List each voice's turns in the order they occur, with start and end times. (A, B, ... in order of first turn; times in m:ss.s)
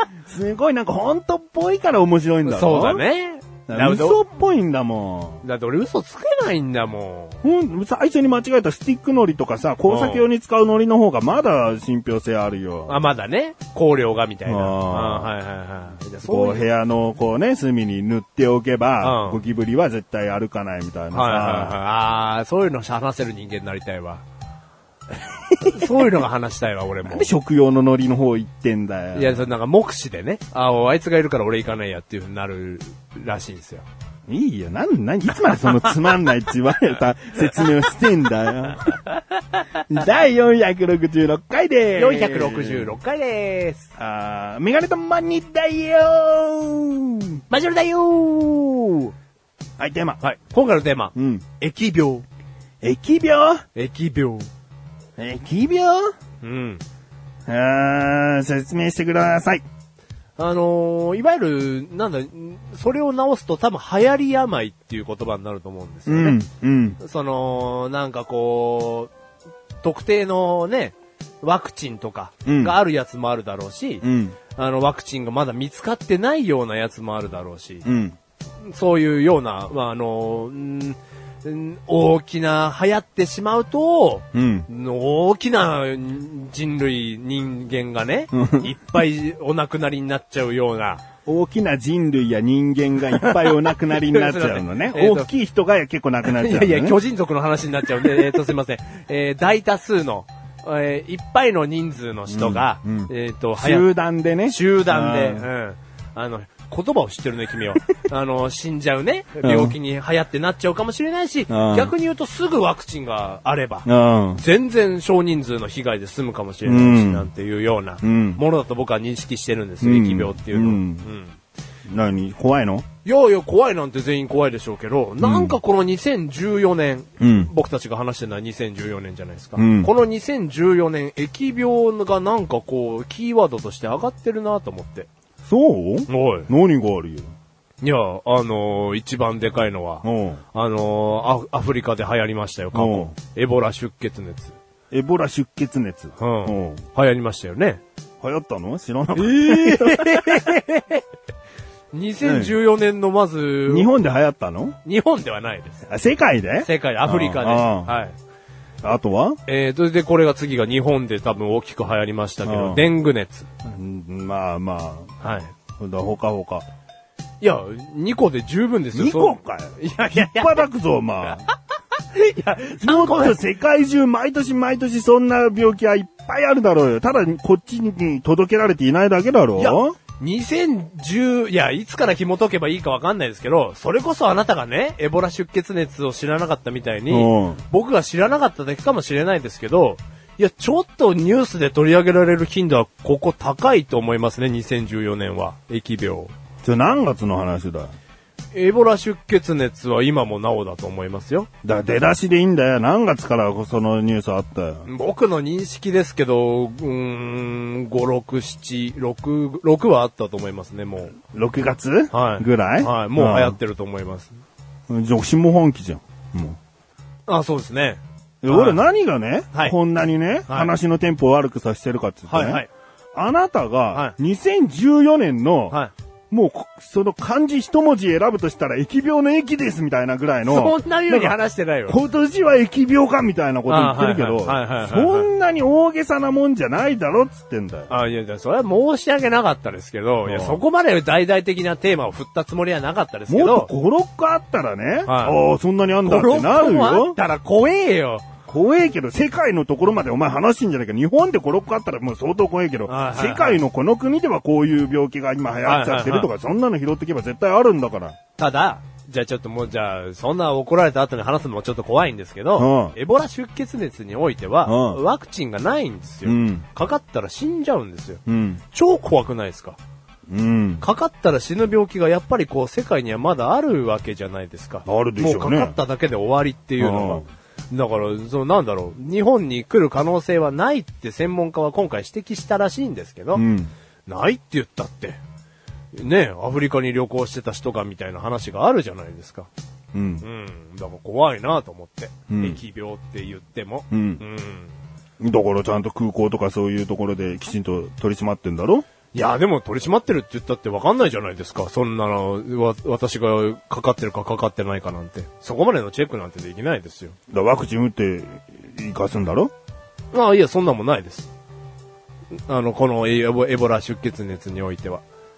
0:00.3-0:03.0 A
0:02.4-0:04.2 B
0:03.7-0:05.4 A
0:05.4-0:07.4 B
0:07.4-0:13.0 A
0:09.9-0:10.2 B
0:12.9-0:16.7 B
0:14.5-0:15.3 A
0:16.2-0:21.8 A
0:19.0-0:19.4 B
0:21.1-0:24.2 B
0:25.4-0:26.2 A
0:25.6-0:27.3 B
0:27.0-0:29.5 A
0:29.1-0:33.9 B
0:34.3-0:39.0 A
0:39.9-0:42.9 A
0:42.0-0:43.9 B
0:44.0-0:47.4 A
0:47.5-0:49.1 B
0:49.8-0:50.2 A
0:50.2-0:52.2 B
0:51.2-0:51.4 A
0:52.8-0:53.6 A
0:53.8-0:54.5 B
0:55.2-0:56.1 A
0:56.4-0:56.8 B
0:57.5-0:59.6 A
1:00.4-1:06.4 B
1:06.1-1:07.0 A
1:07.0-1:09.1 B
1:09.8-1:14.0 B
1:12.5-1:12.8 A
1:14.0-1:14.4 A
1:14.6-1:17.9 B
1:17.8-1:18.2 A
1:18.6-1:31.0 B
1:24.3-1:24.7 A
1:28.3-1:28.7 A
1:31.3-1:37.0 A
1:33.1-1:35.3 B
1:36.2-1:43.9 B
1:38.0-1:38.4 A
1:42.3-1:45.5 A
1:44.5-2:01.4 B
1:49.4-1:49.8 A
1:51.5-1:52.0 A
1:53.9-1:54.4 A
1:56.6-1:57.3 A
1:58.0-1:58.4 A
1:59.8-2:01.1 A
2:01.9-2:02.8 A
2:03.0-2:15.1 B
2:05.2-2:05.6 A
2:07.2-2:07.5 A
2:09.6-2:09.9 A
2:15.5-2:17.3 A
2:16.1-2:16.5 B
2:17.8-2:24.6 B
2:20.0-2:20.4 A
2:22.7-2:23.1 A
2:24.9-2:26.8 A
2:26.2-2:27.8 B
2:28.2-2:30.6 A
2:29.2-2:31.0 B
2:31.9-2:34.0 B
2:32.2-2:32.6 A
2:33.7-2:34.8 A
2:34.8-2:35.8 B
2:35.9-2:38.0 A
2:36.6-2:38.2 B
2:38.8-2:39.4 A
2:39.5-2:43.5 B
2:42.4-2:42.9 A
2:43.6-2:45.1 A
2:45.2-2:45.5 B
2:45.8-2:46.6 A
2:47.4-2:50.7 B
2:48.9-2:51.5 A
2:52.1-2:53.4 B
2:52.8-3:00.0 A
2:59.6-3:16.3 B
3:07.1-3:07.6 A
3:16.6-3:17.9 A
3:18.5-3:21.5 B
3:21.6-3:24.9 A
3:24.9-3:31.2 B
3:31.3-3:33.6 A
3:32.1-3:34.3 B
3:34.9-3:36.6 A
3:37.3-3:38.8 B
3:38.4-3:45.8 A
3:42.3-3:42.7 B
3:46.3-3:57.9 A
3:50.5-3:52.0 B
3:53.7-3:55.3 B
3:57.9-4:03.7 B
4:00.2-4:00.6 A
4:03.3-4:07.2 A
4:05.1-4:05.4 B
4:06.0-4:08.3 B
4:08.5-4:18.2 A
4:12.9-4:13.6 B
4:15.6-4:16.3 B
4:18.4-4:28.2 B
4:22.6-4:23.0 A
4:24.6-4:25.0 A
4:26.2-4:26.7 A
4:28.3-4:28.6 A
4:28.7-4:29.8 B
4:30.3-4:30.8 A
4:30.8-4:43.4 B
4:34.8-4:35.8 A
4:36.8-4:37.3 A
4:43.3-4:43.7 A
4:44.1-4:45.2 B
4:46.0-4:49.5 B
4:49.9-4:50.3 A
4:50.2-4:54.7 B
4:52.3-4:52.6 A
4:53.9-4:54.2 A
4:55.2-4:58.8 A
4:59.1-5:07.2 B
5:07.3-5:09.5 A
5:10.1-5:11.3 B
5:12.5-5:15.0 B